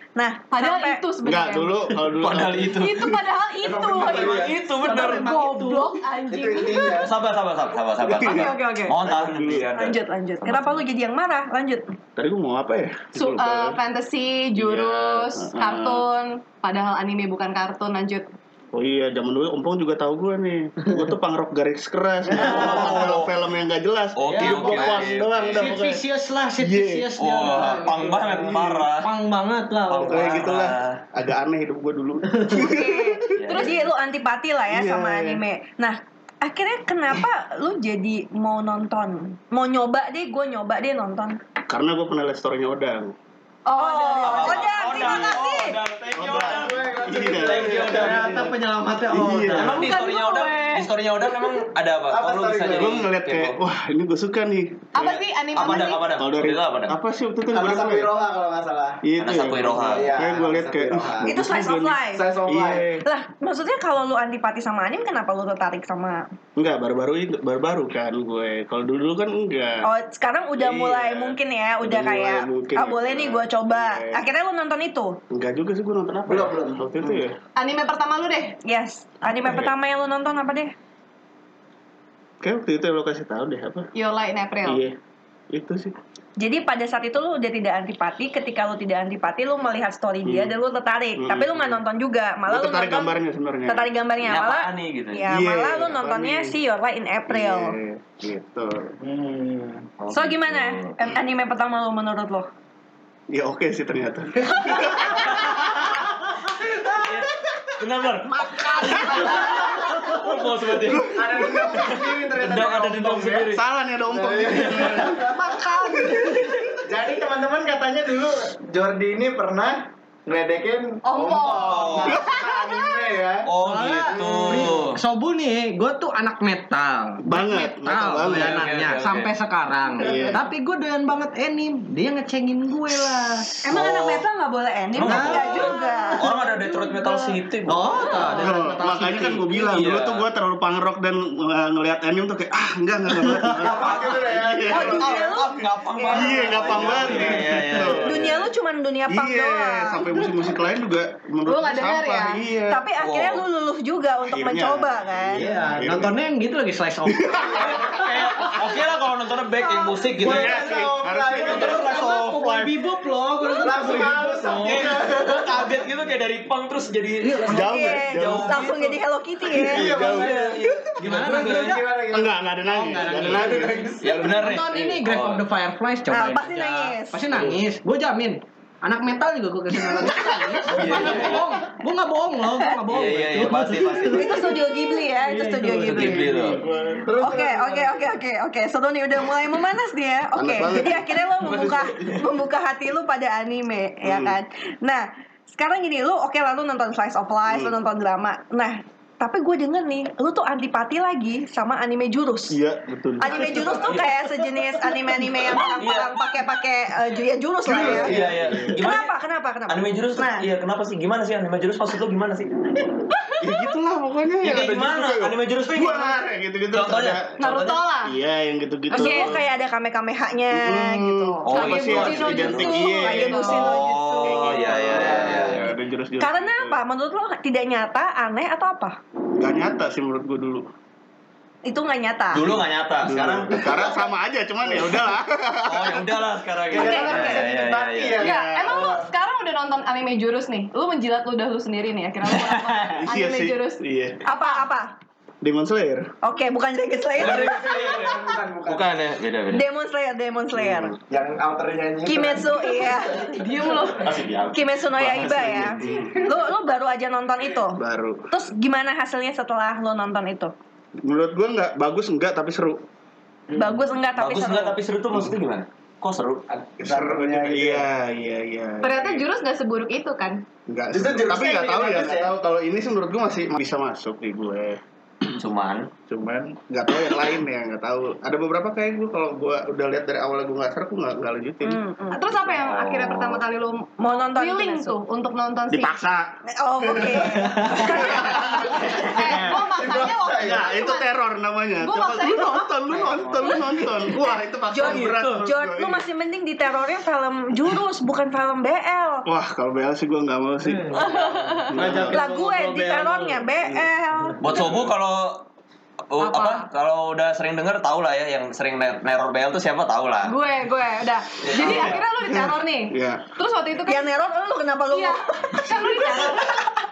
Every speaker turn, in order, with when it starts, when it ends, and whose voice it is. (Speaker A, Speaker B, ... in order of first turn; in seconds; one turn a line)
Speaker A: 0.2-1.0
Speaker B: 0.5-1.8
Speaker C: 1.2-3.0
Speaker D: 2.2-3.1
Speaker B: 2.8-7.1
Speaker E: 3.6-4.7
Speaker D: 3.9-5.3
Speaker F: 4.8-6.0
Speaker E: 6.3-7.1
Speaker D: 6.9-10.8
Speaker C: 8.1-9.7
Speaker B: 8.2-8.9
Speaker A: 9.7-11.9
Speaker C: 12.2-13.8
Speaker B: 13.2-18.3
Speaker C: 14.6-16.1
Speaker C: 18.7-26.0
Speaker D: 22.3-23.4
Speaker F: 22.4-22.9
Speaker D: 24.2-25.9
Speaker F: 24.2-30.5
Speaker C: 26.6-27.1
Speaker D: 27.2-29.1
Speaker C: 28.5-28.8
Speaker D: 29.9-31.0
Speaker C: 30.1-33.6
Speaker F: 32.3-32.6
Speaker A: 32.5-41.4
Speaker B: 32.6-33.8
Speaker D: 33.4-33.8
Speaker C: 34.7-35.4
Speaker C: 41.7-43.1
Speaker B: 43.7-45.4
Speaker A: 43.8-45.8
Speaker D: 44.2-48.4
Speaker C: 46.1-48.5
Speaker E: 46.2-48.4
Speaker F: 47.8-49.9
Speaker C: 49.1-49.9
Speaker D: 49.5-53.6
Speaker B: 49.8-51.6
Speaker E: 52.1-53.0
Speaker C: 52.7-55.2
Speaker B: 55.0-56.1
Speaker D: 55.5-57.0
Speaker C: 56.1-58.1
Speaker E: 57.5-59.0
Speaker C: 59.0-63.0
Speaker D: 59.2-60.2
Speaker E: 59.8-61.3
Speaker A: 61.3-62.2
Speaker E: 62.1-62.9
Speaker A: 63.0-66.3
Speaker C: 66.6-69.9
Speaker A: 69.8-75.2
Speaker C: 70.6-74.2
Speaker C: 75.3-77.4
Speaker E: 76.3-77.0
Speaker B: 77.6-78.6
Speaker A: 78.6-80.7
Speaker C: 82.4-83.9
Speaker B: 83.9-84.8
Speaker C: 84.7-85.0
Speaker C: 85.5-85.9
Speaker A: 86.4-93.2
Speaker C: 90.2-90.6
Speaker C: 91.2-91.8
Speaker C: 92.5-93.9
Speaker A: 93.7-97.8
Speaker D: 94.2-95.3
Speaker C: 95.3-96.6
Speaker C: 97.3-99.0
Speaker E: 99.0-99.9
Speaker D: 100.0-101.0
Speaker A: 100.1-102.5
Speaker C: 103.3-105.9
Speaker D: 107.0-113.6
Speaker F: 108.4-110.2
Speaker C: 110.8-111.8
Speaker E: 111.0-113.5
Speaker C: 113.5-116.7
Speaker E: 114.1-115.5
Speaker F: 115.2-116.8
Speaker E: 116.8-123.5
Speaker B: 121.0-122.3
Speaker D: 121.5-122.2
Speaker D: 123.5-125.0
Speaker F: 123.6-133.5
Speaker E: 124.1-124.8
Speaker C: 127.2-128.7
Speaker D: 128.2-129.3
Speaker C: 130.0-130.4
Speaker A: 133.6-137.3
Speaker D: 133.7-134.2
Speaker D: 135.0-138.4
Speaker F: 135.0-136.2
Speaker F: 137.7-139.6
Speaker A: 138.0-138.4
Speaker C: 138.4-145.1
Speaker D: 139.6-140.3
Speaker F: 143.2-143.5
Speaker E: 143.5-145.4
Speaker D: 143.7-148.4
Speaker A: 144.7-147.0
Speaker C: 146.1-148.3
Speaker E: 146.8-147.3
Speaker F: 147.5-148.0
Speaker A: 148.0-150.2
Speaker C: 149.1-152.8
Speaker B: 151.4-152.4
Speaker A: 152.7-155.4
Speaker D: 153.0-153.4
Speaker C: 154.3-156.2
Speaker F: 155.3-158.6
Speaker C: 157.1-158.0
Speaker D: 157.6-160.6
Speaker F: 159.8-165.0
Speaker C: 160.2-161.8
Speaker E: 160.3-161.9
Speaker D: 161.4-162.7
Speaker E: 163.6-165.8
Speaker D: 164.6-169.0
Speaker F: 167.2-167.6
Speaker C: 167.5-168.8
Speaker A: 167.5-169.9
Speaker C: 169.4-170.8
Speaker E: 169.6-174.4
Speaker D: 169.8-171.8
Speaker F: 171.0-171.8
Speaker C: 172.1-173.8
Speaker F: 172.7-173.7
Speaker D: 174.0-175.4
Speaker F: 174.3-187.0
Speaker A: 176.1-177.2
Speaker D: 176.6-176.8
Speaker C: 179.9-180.8
Speaker D: 180.7-181.5
Speaker D: 182.9-184.6
Speaker A: 184.1-186.3
Speaker D: 185.8-186.6
Speaker C: 186.6-187.1
Speaker E: 187.0-188.1
Speaker A: 187.2-202.6
Speaker C: 190.3-192.1
Speaker C: 194.0-194.4
Speaker C: 197.5-197.8
Speaker C: 202.5-204.1
Speaker A: 203.2-208.2
Speaker D: 205.8-206.2
Speaker C: 207.7-208.8
Speaker D: 207.7-209.1
Speaker A: 208.8-210.5
Speaker D: 209.7-212.6
Speaker C: 213.4-217.4
Speaker D: 214.4-216.2
Speaker D: 216.7-217.8
Speaker B: 217.4-218.2
Speaker C: 218.1-219.4
Speaker A: 218.9-221.5
Speaker B: 218.9-219.3
Speaker C: 220.5-226.8
Speaker D: 221.4-225.7
Speaker B: 221.5-223.7
Speaker A: 222.8-224.8
Speaker E: 224.8-225.6
Speaker A: 226.2-229.0
Speaker C: 229.3-230.7
Speaker A: 231.7-232.5
Speaker D: 232.3-233.9
Speaker C: 233.0-236.2
Speaker D: 235.7-238.3
Speaker E: 236.7-239.1
Speaker B: 236.8-237.2
Speaker C: 236.8-237.4
Speaker B: 238.2-244.6
Speaker C: 238.2-238.8
Speaker D: 242.3-243.0
Speaker C: 242.9-244.2
Speaker A: 244.2-244.9
Speaker C: 245.4-246.1
Speaker A: 246.2-247.6
Speaker E: 247.2-248.9
Speaker D: 247.2-249.6
Speaker A: 249.5-251.0
Speaker C: 250.5-251.0
Speaker E: 251.1-253.4
Speaker A: 252.1-253.4
Speaker B: 253.3-254.2
Speaker D: 253.9-255.9
Speaker A: 254.5-260.5
Speaker C: 255.4-256.2
Speaker C: 257.8-258.3
Speaker C: 261.0-262.8
Speaker A: 263.5-264.8
Speaker D: 264.2-266.4
Speaker E: 266.5-267.9
Speaker C: 266.8-269.2
Speaker B: 268.8-270.4
Speaker C: 270.7-274.8
Speaker E: 270.9-272.3
Speaker D: 275.3-275.9
Speaker C: 276.1-281.8
Speaker A: 281.6-282.2
Speaker B: 282.1-286.0
Speaker D: 282.5-283.4
Speaker A: 284.0-285.0
Speaker C: 285.7-286.4
Speaker A: 286.5-289.0
Speaker C: 286.9-287.2
Speaker C: 287.9-289.5
Speaker E: 288.8-290.7
Speaker B: 289.0-291.1
Speaker C: 290.4-296.0
Speaker B: 291.8-292.8
Speaker E: 292.9-293.5
Speaker A: 294.7-299.3
Speaker D: 294.8-295.3
Speaker C: 299.2-300.9
Speaker F: 300.7-301.1
Speaker F: 301.7-303.4
Speaker C: 301.7-302.2
Speaker A: 302.1-304.6
Speaker C: 303.6-303.9
Speaker D: 304.4-305.4
Speaker C: 304.5-304.9
Speaker D: 306.1-310.4
Speaker B: 306.2-306.7
Speaker B: 310.2-314.1
Speaker D: 311.4-312.0
Speaker C: 311.6-313.2
Speaker A: 313.9-316.7
Speaker B: 314.9-316.7